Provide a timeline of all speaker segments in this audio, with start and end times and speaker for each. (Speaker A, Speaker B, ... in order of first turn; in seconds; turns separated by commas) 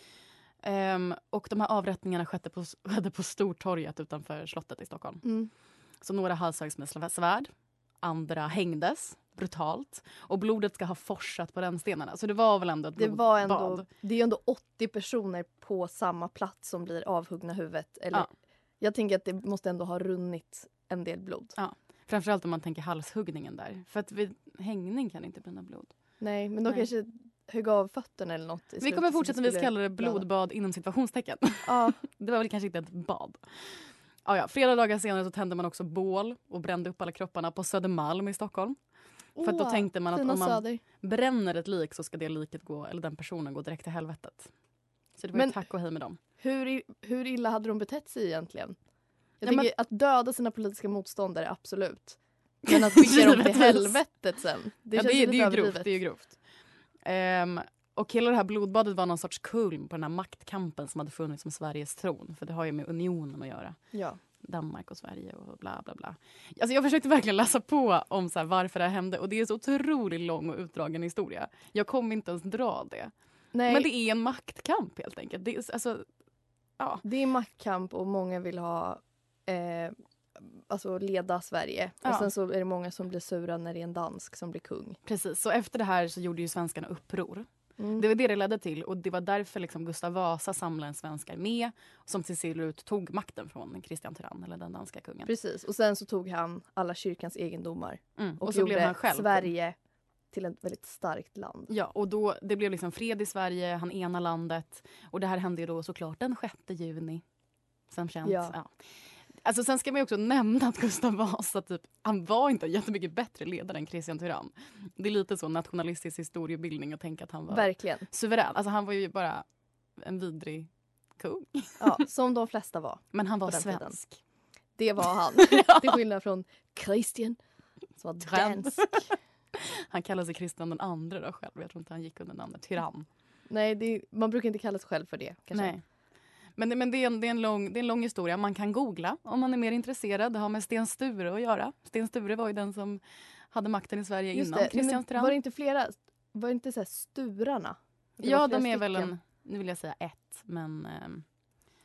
Speaker A: 0.6-5.2, Speaker B: 5.2-5.5, Speaker A: 6.0-7.5, Speaker A: 8.0-13.9, Speaker B: 13.0-18.2, Speaker B: 18.8-21.6, Speaker A: 21.6-25.9, Speaker B: 26.2-30.2, Speaker A: 28.8-38.8, Speaker B: 31.6-32.0, Speaker B: 39.4-40.8, Speaker A: 39.4-44.5, Speaker A: 45.2-46.2, Speaker B: 45.3-45.6, Speaker B: 46.4-48.8, Speaker B: 49.4-55.9, Speaker A: 49.4-49.7, Speaker A: 52.6-54.0, Speaker A: 54.9-56.4, Speaker A: 57.0-63.8, Speaker B: 63.9-64.2, Speaker A: 64.4-73.1, Speaker B: 73.5-73.9, Speaker A: 73.7-76.0, Speaker A: 76.8-77.0, Speaker B: 77.0-85.0, Speaker A: 82.0-82.3, Speaker A: 85.0-95.3, Speaker B: 87.8-88.0, Speaker B: 95.2-99.8, Speaker A: 98.2-99.5, Speaker B: 100.3-101.7, Speaker A: 101.7-107.2, Speaker A: 107.9-108.7, Speaker B: 108.2-108.5, Speaker A: 109.4-119.4, Speaker B: 117.5-118.0, Speaker A: 120.0-121.8, Speaker B: 121.8-124.0, Speaker A: 123.1-124.2, Speaker B: 124.8-127.4, Speaker A: 125.4-126.0, Speaker B: 128.0-129.1, Speaker A: 128.2-133.1, Speaker B: 133.5-135.7, Speaker A: 135.5-135.8, Speaker A: 136.6-143.0, Speaker A: 143.5-145.3, Speaker B: 144.3-149.1, Speaker A: 148.2-151.2